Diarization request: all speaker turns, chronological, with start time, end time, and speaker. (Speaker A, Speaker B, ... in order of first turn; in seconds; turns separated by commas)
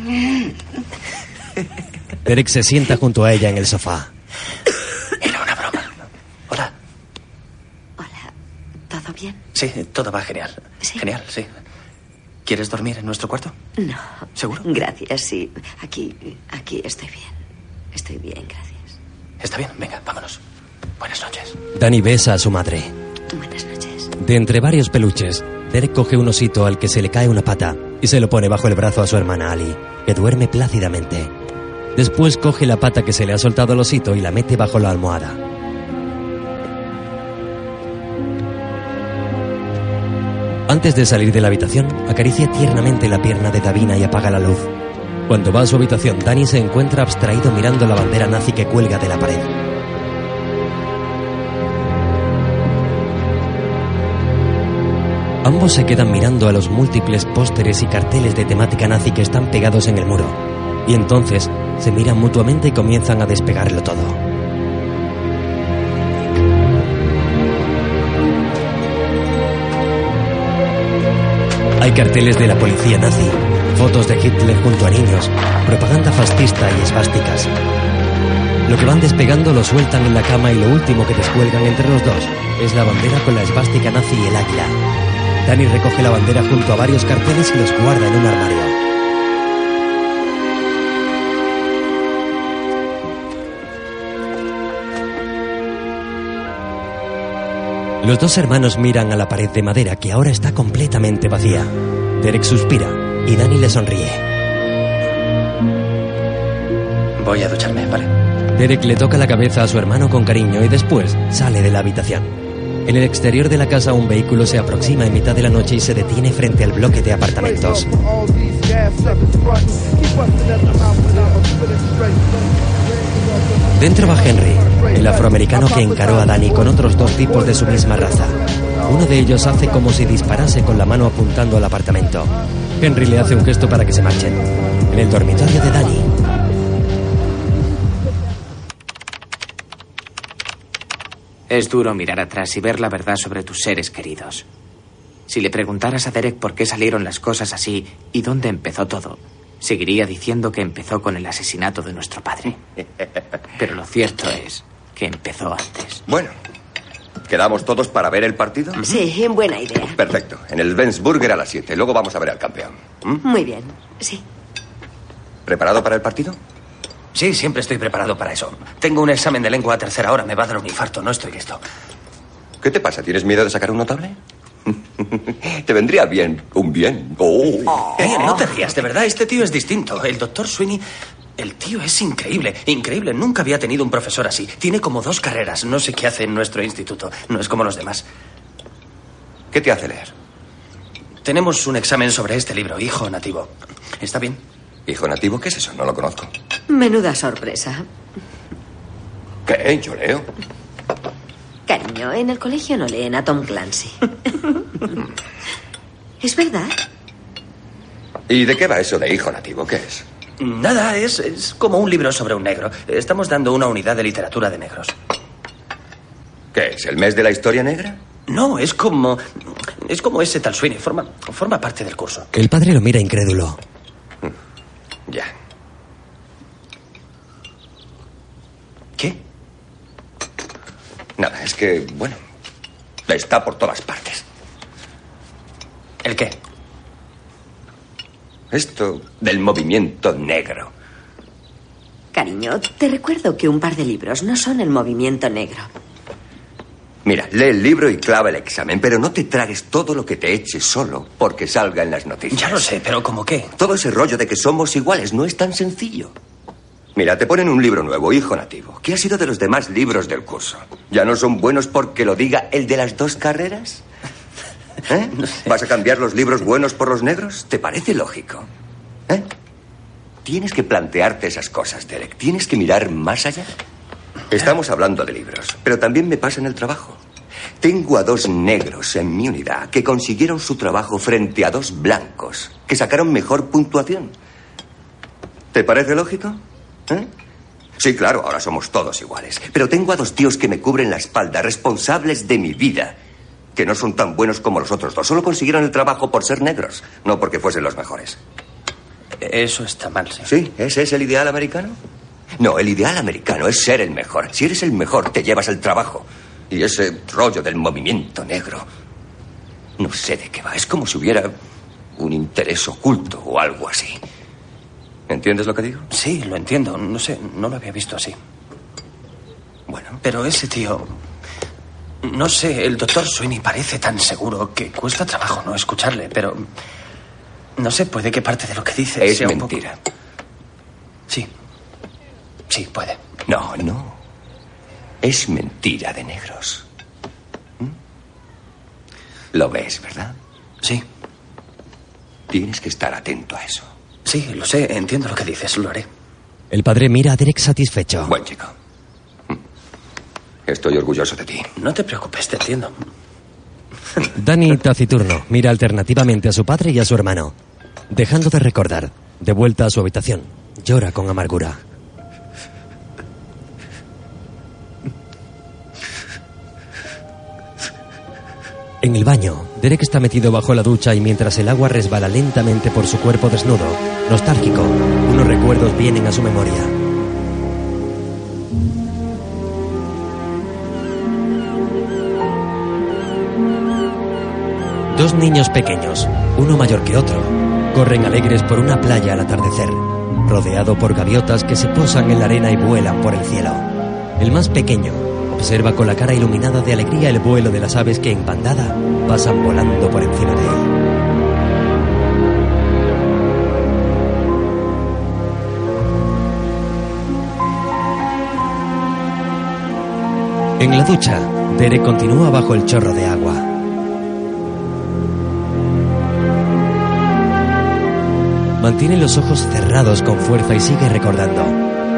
Speaker A: 2.2-4.1, Speaker B: 5.2-6.7, Speaker C: 8.0-8.3, Speaker C: 8.9-9.4, Speaker B: 9.5-11.5, Speaker B: 12.4-13.5, Speaker C: 13.8-14.0, Speaker C: 14.6-17.3, Speaker C: 17.9-18.9, Speaker B: 19.4-20.4, Speaker B: 21.0-21.6, Speaker A: 21.7-22.9, Speaker C: 23.3-24.1, Speaker A: 24.2-31.3, Speaker A: 31.9-35.4, Speaker A: 40.7-44.7, Speaker A: 45.3-49.6, Speaker A: 55.4-64.2, Speaker A: 71.8-77.5, Speaker A: 78.7-84.8, Speaker A: 85.4-88.8, Speaker A: 98.0-104.2, Speaker B: 107.2-108.1, Speaker A: 108.5-112.3, Speaker A: 112.8-117.9, Speaker A: 123.8-136.1, Speaker D: 141.5-144.5, Speaker D: 145.3-152.6, Speaker D: 153.6-156.0, Speaker E: 156.1-156.3, Speaker E: 157.3-158.8, Speaker C: 158.8-160.0, Speaker E: 160.0-162.7, Speaker C: 163.2-164.2, Speaker E: 165.5-166.4, Speaker B: 167.1-171.6, Speaker E: 172.6-174.2, Speaker E: 175.6-177.7, Speaker B: 178.0-180.8, Speaker B: 181.4-188.1, Speaker E: 189.5-190.1, Speaker B: 191.2-194.4, Speaker E: 194.9-196.3, Speaker C: 196.7-197.9, Speaker E: 199.5-200.2, Speaker C: 201.7-204.0, Speaker C: 206.2-206.8, Speaker E: 208.3-210.0, Speaker B: 210.4-214.9, Speaker E: 216.5-218.0, Speaker B: 218.3-222.3, Speaker A: 222.3-223.6, Speaker E: 231.2-232.2, Speaker E: 233.1-234.2, Speaker B: 236.0-236.3, Speaker E: 238.5-240.7, Speaker C: 242.1-245.7, Speaker E: 247.1-252.7, Speaker B: 252.3-253.5, Speaker E: 253.6-256.1, Speaker E: 256.9-263.8, Speaker E: 264.9-268.4, Speaker E: 270.2-273.5, Speaker E: 274.3-277.0, Speaker E: 277.6-284.1, Speaker E: 285.5-287.1, Speaker E: 287.8-292.9, Speaker E: 293.6-298.2, Speaker B: 299.2-300.3, Speaker E: 300.3-301.8, Speaker E: 302.4-308.6, Speaker E: 309.8-311.3, Speaker E: 312.0-314.0, Speaker E: 315.1-315.8, Speaker B: 315.9-318.2, Speaker E: 319.7-320.0, Speaker B: 320.0-320.9, Speaker B: 322.0-326.4, Speaker B: 327.6-329.6, Speaker E: 329.0-329.7, Speaker B: 332.5-333.0, Speaker E: 333.3-333.9, Speaker E: 335.0-336.6, Speaker E: 339.3-340.1, Speaker E: 342.3-343.6, Speaker B: 344.1-345.9, Speaker A: 346.5-348.1, Speaker E: 348.1-348.5, Speaker E: 350.5-351.5, Speaker B: 351.6-352.7, Speaker A: 354.1-357.3, Speaker A: 357.9-361.6, Speaker A: 368.8-376.7, Speaker A: 384.9-393.7, Speaker A: 394.2-400.7, Speaker A: 410.6-413.5, Speaker A: 418.6-421.6